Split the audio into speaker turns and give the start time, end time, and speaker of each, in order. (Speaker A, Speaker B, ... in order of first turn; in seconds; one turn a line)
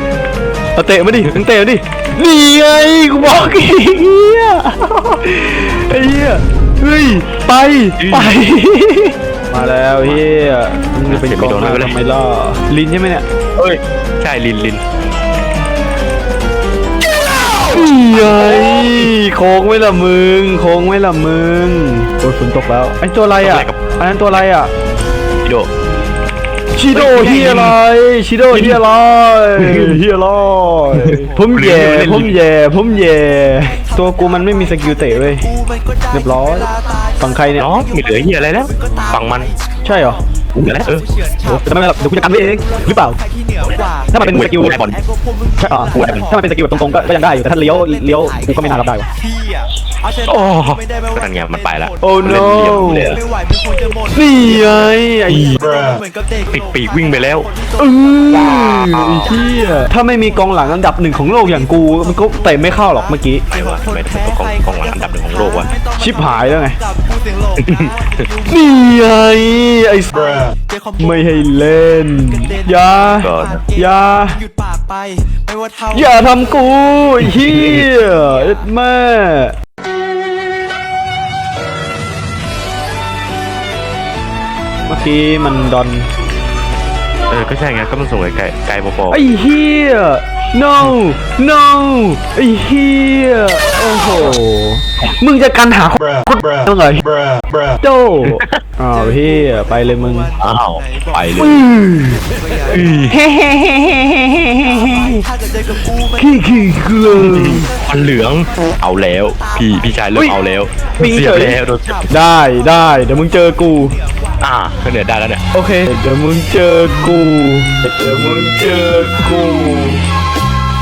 Speaker A: 0.8-13.2
Speaker B: 8.0-8.4
Speaker B: 11.1-12.0
Speaker B: 13.6-14.8
Speaker A: 17.6-24.7
Speaker B: 18.1-19.1
Speaker B: 23.4-23.8
Speaker B: 25.4-25.7
Speaker A: 26.7-35.5
Speaker B: 26.9-27.8
Speaker B: 28.5-28.8
Speaker B: 29.6-30.0
Speaker B: 30.9-32.4
Speaker C: 35.3-37.0
Speaker A: 36.1-37.7
Speaker B: 37.6-39.5
Speaker C: 38.7-39.5
Speaker A: 39.8-40.2
Speaker B: 40.5-41.0
Speaker C: 41.0-41.6
Speaker A: 41.5-43.2
Speaker C: 42.4-42.8
Speaker C: 43.5-46.2
Speaker A: 44.1-44.8
Speaker B: 44.2-45.0
Speaker A: 45.6-49.1
Speaker C: 48.2-51.1
Speaker B: 50.3-53.2
Speaker A: 52.0-53.2
Speaker C: 53.2-54.5
Speaker A: 54.1-55.6
Speaker C: 55.6-57.7
Speaker B: 56.5-57.5
Speaker A: 57.8-63.5
Speaker B: 58.3-59.3
Speaker B: 63.5-65.7
Speaker C: 63.5-68.5
Speaker A: 66.0-66.8
Speaker B: 67.6-68.2
Speaker A: 68.5-74.4
Speaker C: 70.6-71.2
Speaker C: 72.8-73.7
Speaker B: 73.2-73.6
Speaker C: 74.8-75.8
Speaker A: 75.9-79.5
Speaker B: 77.4-77.8
Speaker A: 84.9-86.1
Speaker B: 87.3-89.2
Speaker A: 89.1-97.1
Speaker A: 97.8-100.3
Speaker B: 98.2-98.6
Speaker B: 100.4-101.6
Speaker C: 100.9-101.2
Speaker A: 101.4-105.3
Speaker C: 102.3-102.9
Speaker B: 102.7-103.2
Speaker C: 104.7-106.5
Speaker A: 106.2-107.7
Speaker B: 107.2-112.0
Speaker A: 111.0-111.6
Speaker A: 112.1-114.0
Speaker B: 114.4-115.4
Speaker A: 115.5-120.0